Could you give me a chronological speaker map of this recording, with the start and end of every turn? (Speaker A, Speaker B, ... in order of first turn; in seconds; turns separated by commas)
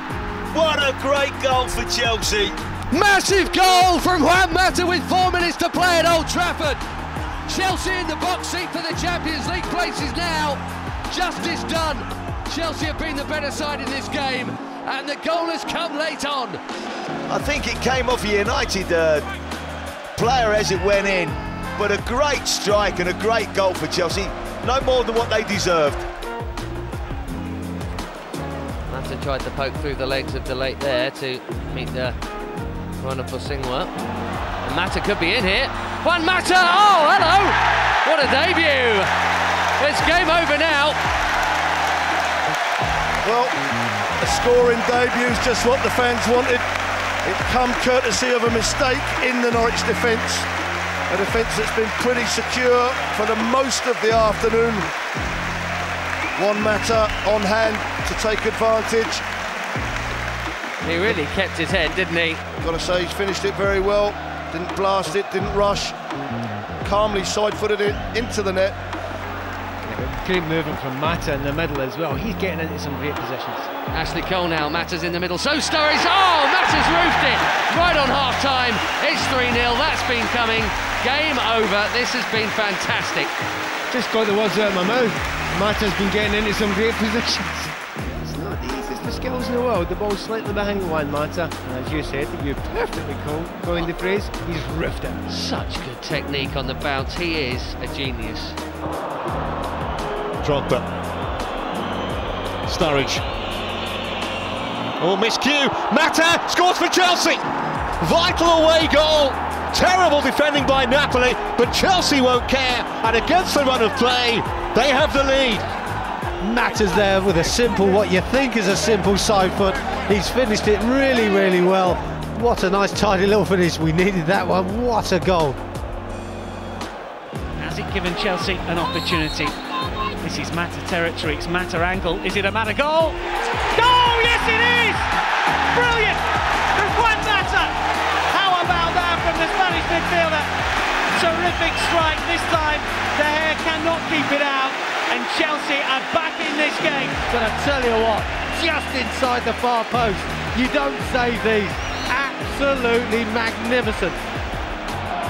Speaker A: 0.5-2.6, Speaker B: 2.9-6.8, Speaker B: 7.5-16.6, Speaker A: 17.3-19.3, Speaker A: 20.2-26.1, Speaker B: 28.9-32.2, Speaker B: 33.0-33.9, Speaker B: 34.6-39.1, Speaker B: 39.8-41.0, Speaker C: 43.2-43.6, Speaker C: 44.2-46.6, Speaker C: 47.2-50.5, Speaker C: 51.1-54.9, Speaker C: 56.4-59.2, Speaker B: 60.8-62.4, Speaker C: 62.6-66.0, Speaker C: 66.8-68.8, Speaker D: 69.8-73.7, Speaker B: 73.9-83.3, Speaker D: 83.9-95.2, Speaker B: 95.3-98.6, Speaker E: 100.4-100.8, Speaker E: 102.7-103.2, Speaker E: 105.0-107.4, Speaker E: 108.0-115.6, Speaker F: 116.4-125.6, Speaker G: 127.6-129.6, Speaker G: 130.2-133.2, Speaker G: 133.7-135.1, Speaker G: 135.7-136.2, Speaker G: 136.8-137.8, Speaker G: 138.3-140.5, Speaker G: 141.1-147.2, Speaker F: 147.2-154.2